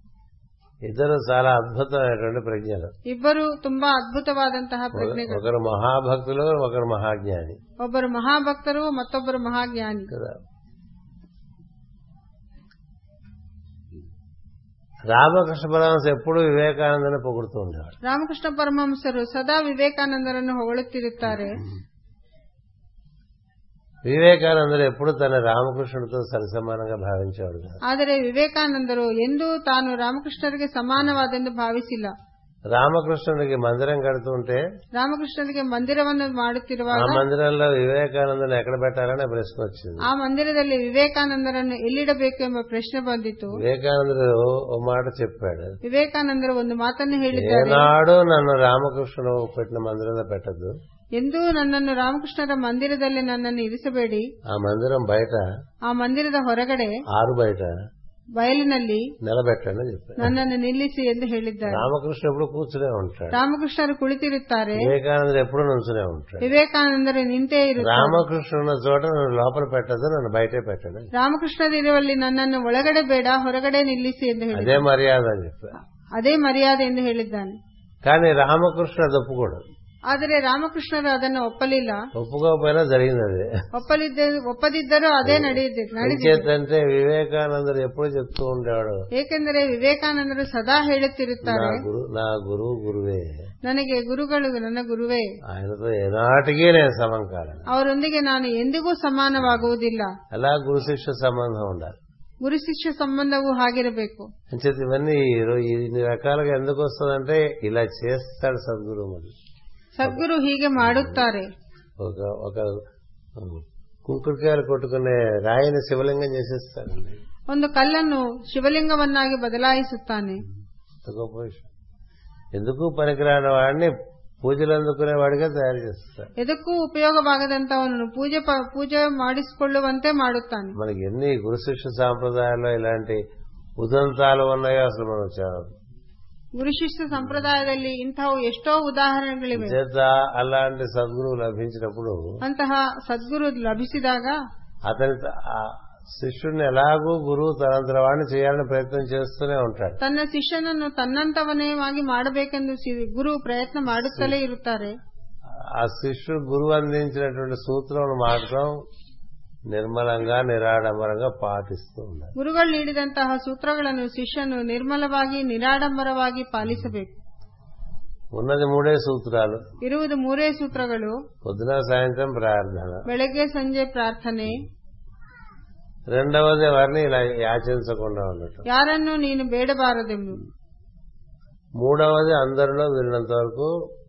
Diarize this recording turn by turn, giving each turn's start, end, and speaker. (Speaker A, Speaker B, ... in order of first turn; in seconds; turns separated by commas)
Speaker A: 0.8-2.9, Speaker B: 3.0-5.4, Speaker A: 4.9-7.6, Speaker B: 7.8-10.1, Speaker A: 10.1-10.4, Speaker A: 15.1-18.0, Speaker B: 18.0-21.6, Speaker A: 24.1-27.8, Speaker B: 27.9-32.1, Speaker A: 32.7-34.6, Speaker B: 35.0-37.2, Speaker A: 36.9-40.1, Speaker B: 40.0-43.6, Speaker A: 43.5-45.8, Speaker B: 45.9-47.9, Speaker A: 47.3-50.8, Speaker B: 51.2-54.3, Speaker A: 54.5-55.5, Speaker B: 55.9-57.0, Speaker A: 57.1-57.7, Speaker B: 58.4-59.1, Speaker A: 59.2-60.4, Speaker B: 60.2-61.9, Speaker A: 61.7-63.4, Speaker B: 63.3-64.9, Speaker A: 64.8-66.6, Speaker B: 66.4-68.2, Speaker A: 67.8-71.1, Speaker B: 71.1-74.8, Speaker A: 74.5-75.8, Speaker B: 76.2-77.6, Speaker A: 78.0-79.6, Speaker B: 80.1-82.1, Speaker A: 82.1-83.6, Speaker B: 83.7-86.5, Speaker A: 85.2-89.1, Speaker B: 89.1-91.8, Speaker A: 91.4-93.4, Speaker B: 93.6-95.3, Speaker A: 95.5-97.7, Speaker B: 97.7-100.1, Speaker A: 100.3-102.0, Speaker B: 102.4-104.3, Speaker A: 104.5-109.3, Speaker B: 110.0-111.5, Speaker A: 110.8-111.2, Speaker A: 112.0-112.8, Speaker A: 113.4-117.2, Speaker B: 117.5-120.4, Speaker A: 121.0-121.7, Speaker A: 122.6-126.3, Speaker B: 126.4-130.7, Speaker A: 130.8-133.2, Speaker A: 133.8-135.7, Speaker B: 136.6-139.8, Speaker A: 139.5-142.3, Speaker B: 142.4-144.4, Speaker A: 144.9-150.0, Speaker B: 150.0-155.0, Speaker A: 154.1-154.4, Speaker A: 155.8-158.8, Speaker A: 159.7-162.3, Speaker B: 162.4-167.2, Speaker A: 168.3-169.7, Speaker B: 169.8-171.2, Speaker A: 171.4-173.1, Speaker B: 173.1-174.7, Speaker A: 176.1-178.7, Speaker B: 178.7-180.4, Speaker A: 181.8-183.7